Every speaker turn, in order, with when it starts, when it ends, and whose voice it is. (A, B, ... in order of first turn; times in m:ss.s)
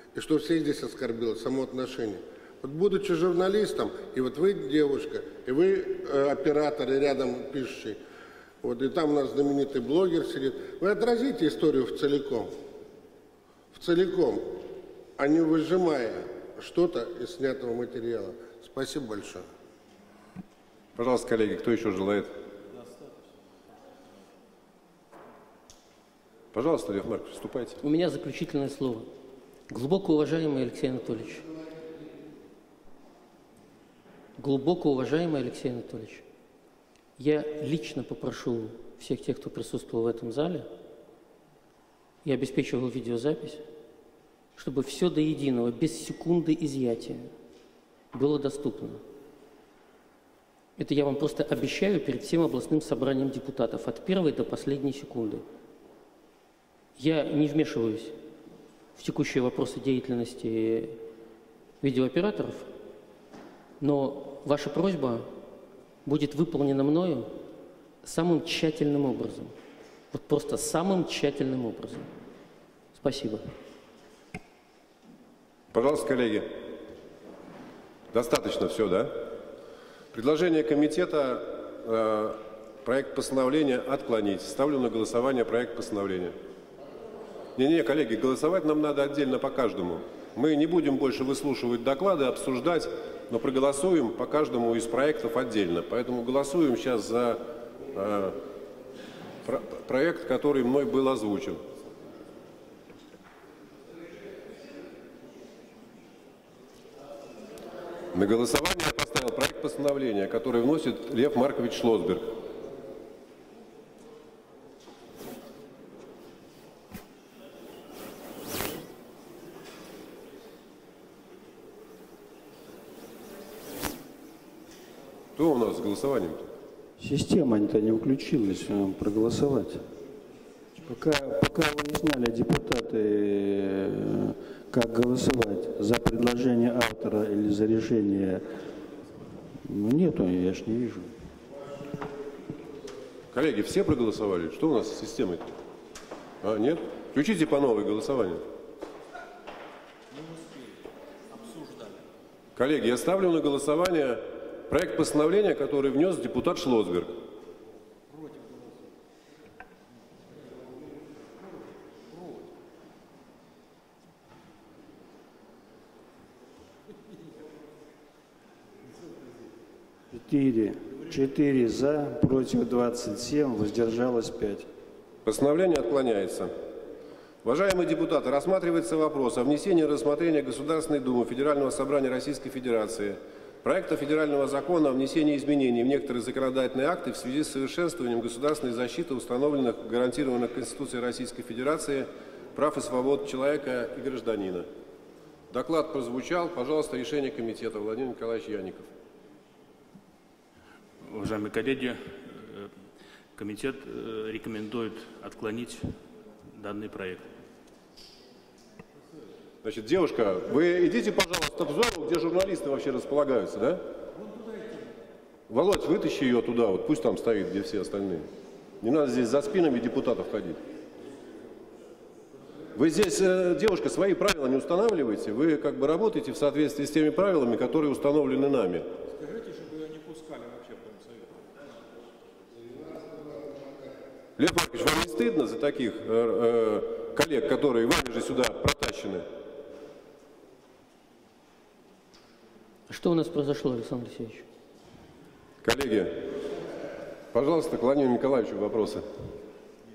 0:00.1-0:08.0 A
0:08.6-0:12.6 A
0:13.7-0:19.5 A
0:21.0-0:22.3 B
0:26.5-0:27.8 B
0:27.8-0:29.1 C
0:29.7-0:31.5 C
0:34.4-0:36.2 C
0:37.2-0:40.7 C
0:42.2-0:43.6 C
0:44.6-0:47.3 C
0:48.1-0:49.0 C
0:50.8-0:55.4 C
0:57.0-0:58.2 C
0:59.0-1:01.0 C
1:01.8-1:02.7 C
1:03.8-1:05.3 C
1:06.0-1:07.3 C
1:08.0-1:09.6 C
1:10.1-1:12.1 C
1:12.9-1:13.4 C
1:15.7-1:16.6 B
1:18.1-1:19.2 B
1:20.1-1:26.4 B
1:27.6-1:38.4 B
1:39.4-1:41.6 B
1:48.1-1:52.4 B
2:05.4-2:06.5 B
2:07.0-2:09.8 D
2:10.8-2:18.5 D
2:19.6-2:21.1 D
2:23.3-2:25.5 B
2:26.4-2:28.4 B
2:32.6-2:37.2 B
2:50.1-2:54.7 D
2:55.2-2:56.5 B
2:57.4-3:14.7 B
3:15.5-3:18.9 B
3:21.0-3:22.8 E
3:23.4-3:25.9 E
3:26.5-3:27.3 E
3:29.6-3:33.8 B
3:35.5-3:38.3 B
3:38.8-3:40.6 B
3:42.7-3:48.9 B
3:52.5-3:54.0 A
3:54.4-3:59.3 B
4:02.9-4:04.5 C
4:05.6-4:06.2 B
4:07.3-4:09.0 B